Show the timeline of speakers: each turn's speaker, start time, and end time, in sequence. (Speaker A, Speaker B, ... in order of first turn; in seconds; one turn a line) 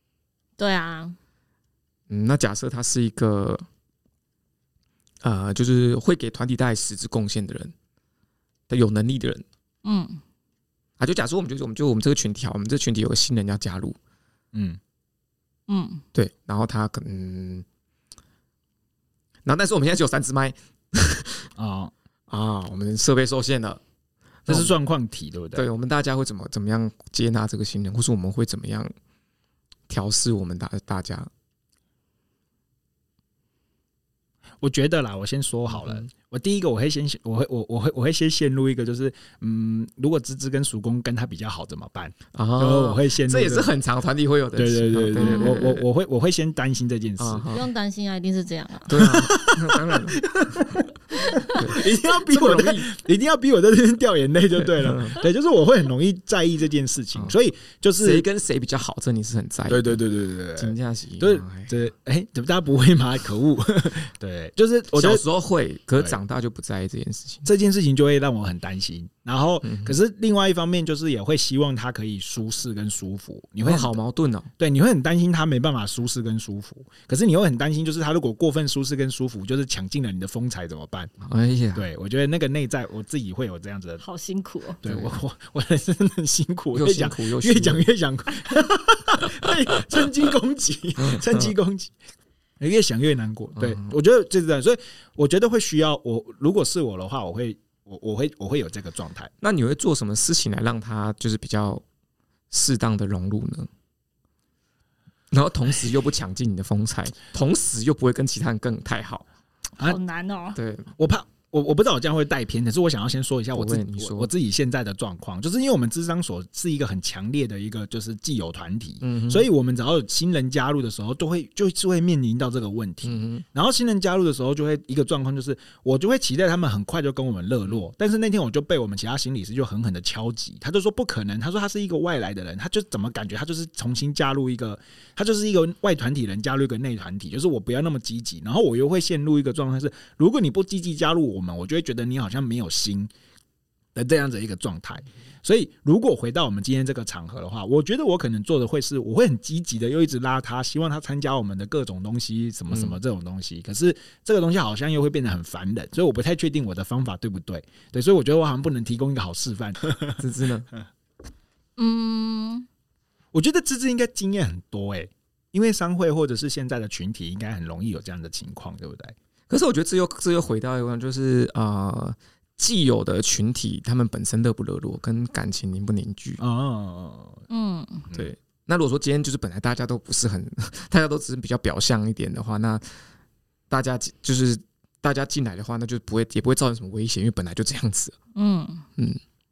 Speaker A: 0.6-1.2
Speaker B: 2.1-3.7
Speaker B: 5.2-7.7
Speaker B: 8.7-9.4
Speaker A: 9.8-10.2
Speaker B: 11.0-14.0
Speaker C: 14.5-14.8
Speaker A: 15.7-16.0
Speaker B: 16.1-17.6
Speaker B: 19.4-21.5
Speaker C: 21.6-21.9
Speaker B: 22.3-23.8
Speaker B: 24.5-24.7
Speaker C: 24.5-25.7
Speaker B: 25.6-28.9
Speaker B: 29.9-31.3
Speaker C: 34.6-43.7
Speaker B: 42.3-45.9
Speaker C: 44.5-47.5
Speaker A: 45.2-45.6
Speaker B: 47.2-47.7
Speaker A: 47.5-49.0
Speaker B: 48.9-52.9
Speaker C: 48.9-58.3
Speaker A: 51.2-51.6
Speaker B: 54.6-55.2
Speaker B: 58.0-60.0
Speaker C: 59.7-65.2
Speaker B: 60.6-61.7
Speaker B: 65.0-67.5
Speaker C: 67.5-74.0
Speaker B: 69.6-70.0
Speaker B: 73.6-74.5
Speaker C: 74.6-81.2
Speaker B: 81.2-81.9
Speaker C: 81.8-84.0
Speaker A: 84.0-84.8
Speaker C: 84.8-91.9
Speaker B: 84.8-85.2
Speaker B: 86.7-87.8
Speaker B: 91.0-91.5
Speaker C: 92.6-99.3
Speaker B: 93.6-94.0
Speaker B: 99.4-101.8
Speaker B: 102.5-103.7
Speaker B: 105.3-109.3
Speaker A: 109.8-110.6
Speaker B: 110.6-110.9
Speaker C: 111.0-143.1
Speaker B: 113.5-114.3
Speaker B: 119.0-119.5
Speaker B: 123.0-123.5
Speaker C: 143.9-160.2
Speaker B: 152.7-153.0
Speaker B: 160.2-160.7
Speaker A: 161.8-162.7
Speaker C: 163.3-169.2
Speaker B: 169.5-176.4
Speaker C: 176.4-177.4
Speaker A: 177.5-178.1
Speaker B: 178.1-182.9
Speaker B: 183.7-188.2
Speaker A: 188.3-188.9